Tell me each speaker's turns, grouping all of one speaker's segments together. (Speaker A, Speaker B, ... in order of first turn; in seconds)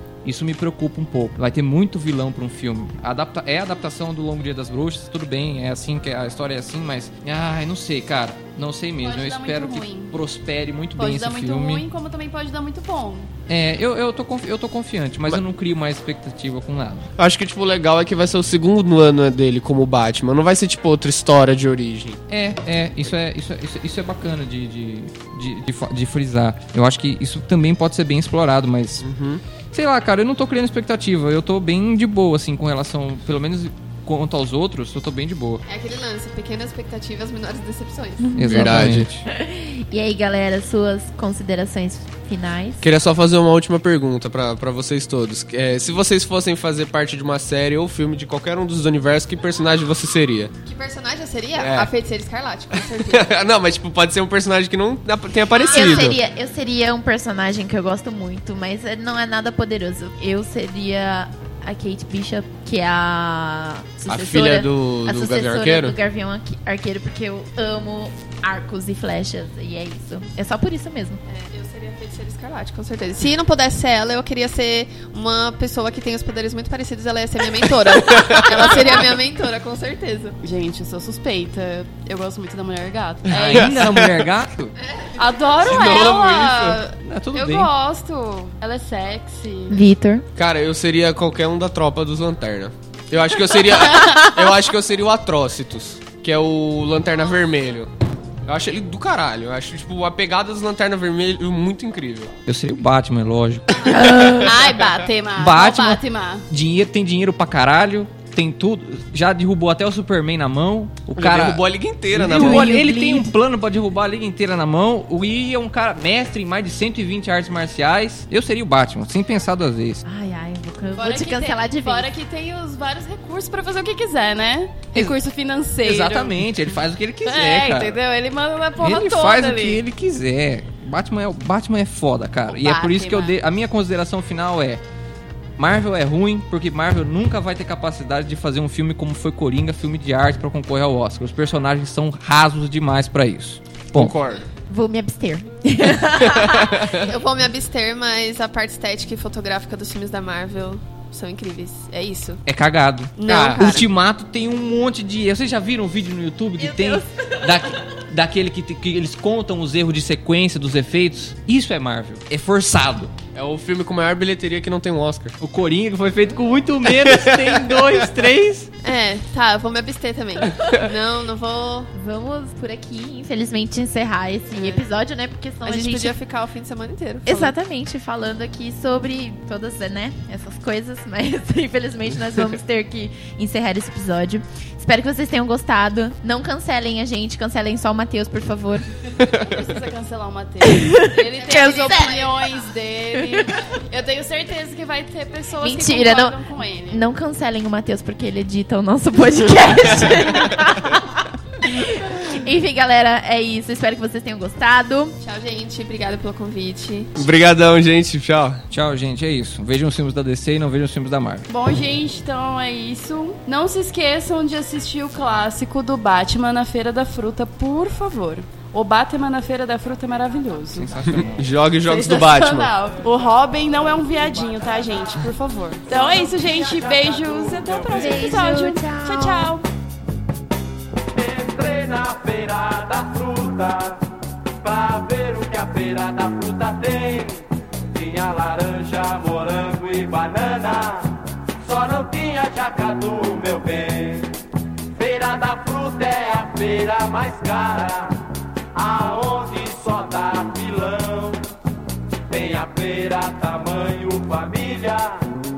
Speaker A: 0.2-11.8, 13.5-17.1, 22.3-29.0, 29.7-35.6, 38.4-39.2, 83.3-84.7, 87.0-87.7, 102.5-104.5, 105.3-120.0, 125.8-128.0, 128.8-134.8, 135.6-144.1, 152.4-163.1, 165.4-168.7, 208.7-211.5, 220.7-221.4
Speaker B: 9.0-10.2, 11.0-13.3, 80.4-83.8, 85.2-89.8, 104.4-106.4, 121.0-126.5, 127.2-129.8, 132.5-133.3, 189.4-197.0, 211.5-221.0, 221.8-229.7
Speaker C: 17.2-22.2, 29.0-29.4, 38.5-39.1, 42.8-50.5, 51.5-51.9, 52.7-56.2, 64.1-66.0, 77.9-78.9, 83.3-84.3, 85.6-86.8, 90.3-97.9, 98.5-102.3, 111.2-112.8, 143.9-144.4, 146.1-147.1, 153.3-153.6, 163.3-165.3, 166.8-168.1, 189.2-189.5, 200.0-200.8, 207.2-208.6, 221.1-222.7
Speaker D: 35.7-38.3, 50.6-53.3, 55.5-56.1, 71.3-80.4, 146.9-152.4, 153.2-153.9, 168.8-171.9, 174.5-174.9, 175.6-177.5, 191.3-192.6, 205.2-207.2
Speaker E: 38.2-42.8, 55.6-71.2, 89.7-90.2, 103.8-104.5, 112.3-113.3, 120.0-122.1, 144.7-146.9, 156.6-157.7, 171.9-176.2, 177.2-188.9, 190.6-192.3, 193.1-193.6, 195.6-205.2, 227.9-229.6
Speaker F: 226.3-228.3, 231.1-234.0, 234.6-244.3, 244.9-248.2, 248.7-251.4, 252.3-255.2